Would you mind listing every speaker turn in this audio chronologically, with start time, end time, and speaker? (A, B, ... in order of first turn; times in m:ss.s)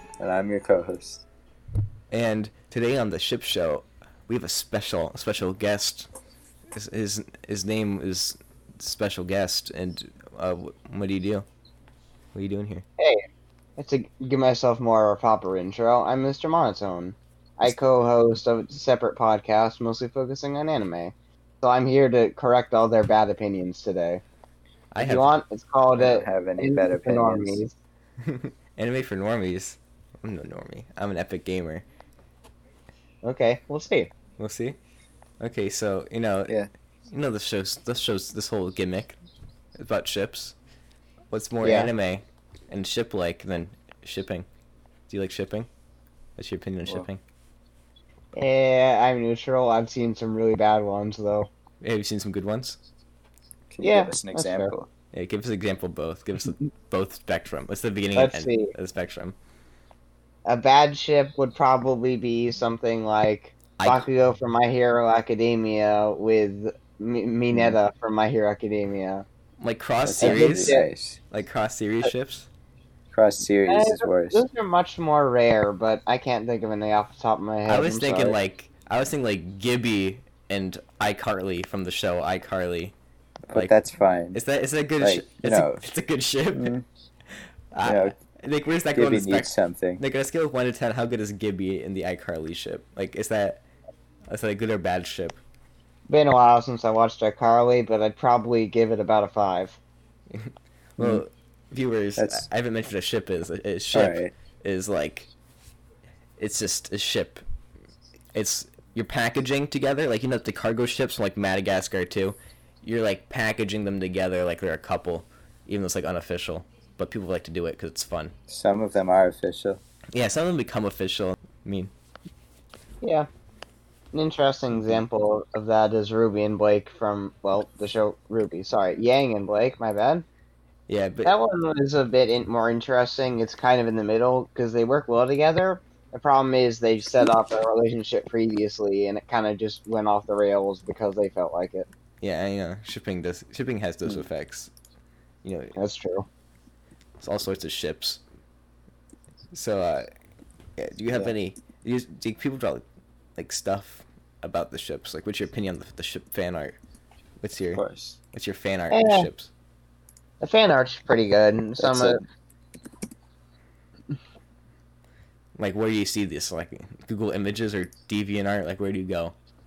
0:00.2-0:01.2 A
0:02.1-0:06.1 B
0:06.7-0:11.4 B
0:12.3-0:12.8 B
0:13.8-0:24.2 C
0:24.9-0:25.3 B
0:25.0-0:27.8 C
0:26.0-0:27.6 A
0:28.2-0:31.8 B
0:33.2-0:34.1 C
0:34.4-0:34.8 B
0:35.4-0:36.6 B
0:37.1-0:39.2 B
0:39.8-0:40.5 B
0:41.3-0:44.4 B
0:41.6-0:41.9 C
0:45.1-0:45.7 B
0:46.4-0:47.2 B
0:48.3-0:51.5 C
0:51.8-0:52.8 B
0:53.7-0:54.9 A
0:53.8-0:54.7 C
0:55.1-0:59.3 B
0:58.1-0:58.7 C
1:00.4-1:09.2 C
1:03.8-1:04.1 B
1:07.5-1:07.8 A
1:09.6-1:12.5 B
1:10.0-1:11.2 A
1:10.2-1:10.9 C
1:13.1-1:14.4 A
1:13.7-1:18.4 C
1:17.7-1:22.9 B
1:23.5-1:24.4 A
1:23.5-1:23.8 B
1:24.3-1:26.7 B
1:25.0-1:25.8 A
1:26.5-1:26.8 A
1:27.7-1:33.6 B
1:27.8-1:28.1 A
1:28.9-1:30.0 A
1:34.3-1:35.4 B
1:36.1-1:39.8 C
1:40.3-1:45.3 B
1:41.0-1:41.2 A
1:42.2-1:42.5 A
1:43.9-1:44.3 A
1:46.4-1:47.4 B
1:48.3-1:58.3 B
1:58.5-1:59.8 A
2:00.1-2:01.9 B
2:03.0-2:03.3 C
2:04.1-2:10.2 C
2:10.9-2:11.3 B
2:11.2-2:21.9 C
2:22.2-2:24.7 B
2:25.4-2:25.8 B
2:25.8-2:26.2 C
2:27.2-2:28.2 B
2:29.5-2:30.1 B
2:30.8-2:32.8 B
2:33.4-2:36.8 B
2:37.4-2:37.8 B
2:37.7-2:38.2 A
2:38.3-2:39.5 B
2:38.9-2:39.3 C
2:40.4-2:42.2 C
2:41.8-2:42.2 A
2:45.6-2:49.3 B